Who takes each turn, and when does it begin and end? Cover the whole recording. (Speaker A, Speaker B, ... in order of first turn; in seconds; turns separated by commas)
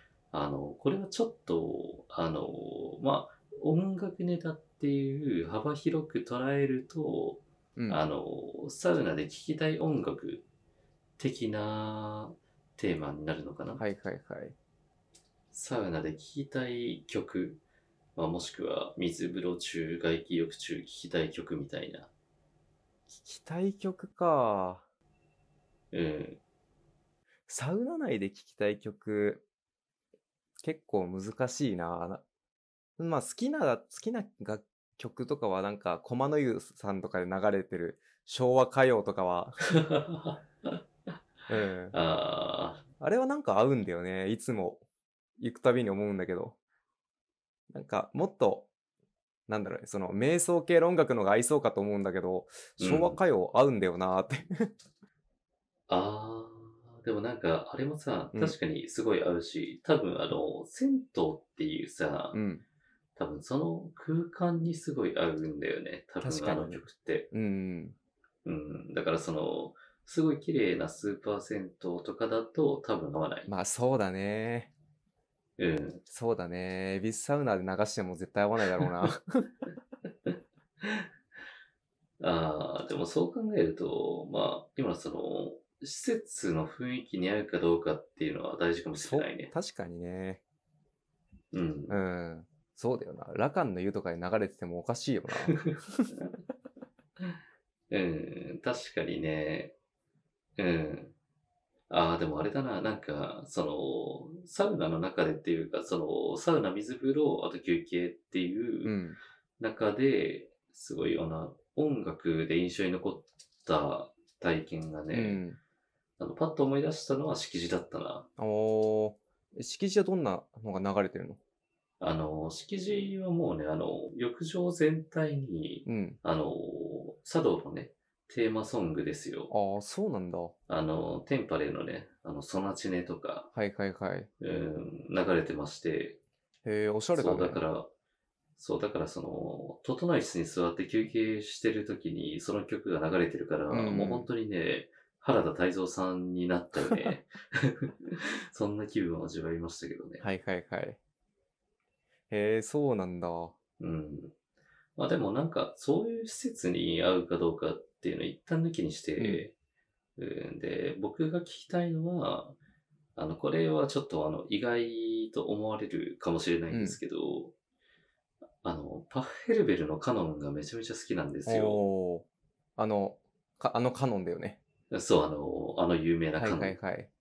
Speaker A: 0.3-10.4, Speaker A: 11.2-13.8, Speaker B: 13.8-14.5, Speaker A: 15.5-17.6, Speaker A: 18.1-22.1, Speaker B: 23.1-24.8, Speaker A: 25.9-26.4, Speaker B: 27.5-29.4, Speaker B: 30.6-32.2, Speaker B: 33.0-39.6, Speaker A: 39.7-40.7, Speaker B: 41.5-41.9, Speaker A: 41.9-42.8, Speaker B: 43.0-44.8, Speaker B: 45.4-46.5, Speaker B: 47.7-48.7, Speaker B: 49.5-54.7, Speaker A: 52.8-53.2, Speaker A: 55.9-62.4, Speaker B: 62.3-62.6, Speaker A: 63.1-67.3, Speaker B: 66.2-67.9, Speaker A: 68.4-73.5, Speaker B: 73.5-74.7, Speaker A: 75.6-76.0, Speaker B: 76.1-79.4, Speaker A: 80.3-81.0, Speaker A: 82.2-89.5, Speaker B: 88.9-90.4, Speaker A: 91.5-92.0, Speaker B: 91.9-96.1, Speaker A: 95.5-95.7, Speaker A: 97.9-99.7, Speaker A: 100.6-101.1, Speaker A: 101.9-109.0, Speaker B: 108.8-109.2, Speaker A: 109.6-115.4, Speaker B: 115.1-115.6, Speaker A: 116.2-118.3, Speaker B: 118.4-121.4, Speaker A: 122.0-129.5, Speaker B: 125.8-126.2, Speaker B: 129.5-130.5, Speaker A: 130.7-133.5, Speaker B: 133.5-134.3, Speaker A: 134.4-136.2, Speaker B: 136.6-137.6, Speaker A: 137.1-137.9, Speaker A: 138.6-150.2, Speaker B: 143.7-144.3, Speaker B: 150.2-151.0, Speaker B: 152.3-153.5, Speaker A: 153.8-154.3, Speaker A: 154.9-159.5, Speaker B: 159.2-159.4, Speaker A: 160.2-162.6, Speaker A: 163.2-167.5, Speaker B: 166.7-167.0, Speaker A: 168.6-171.8, Speaker B: 171.4-172.2, Speaker B: 172.8-174.6, Speaker A: 174.9-176.8, Speaker B: 176.4-177.1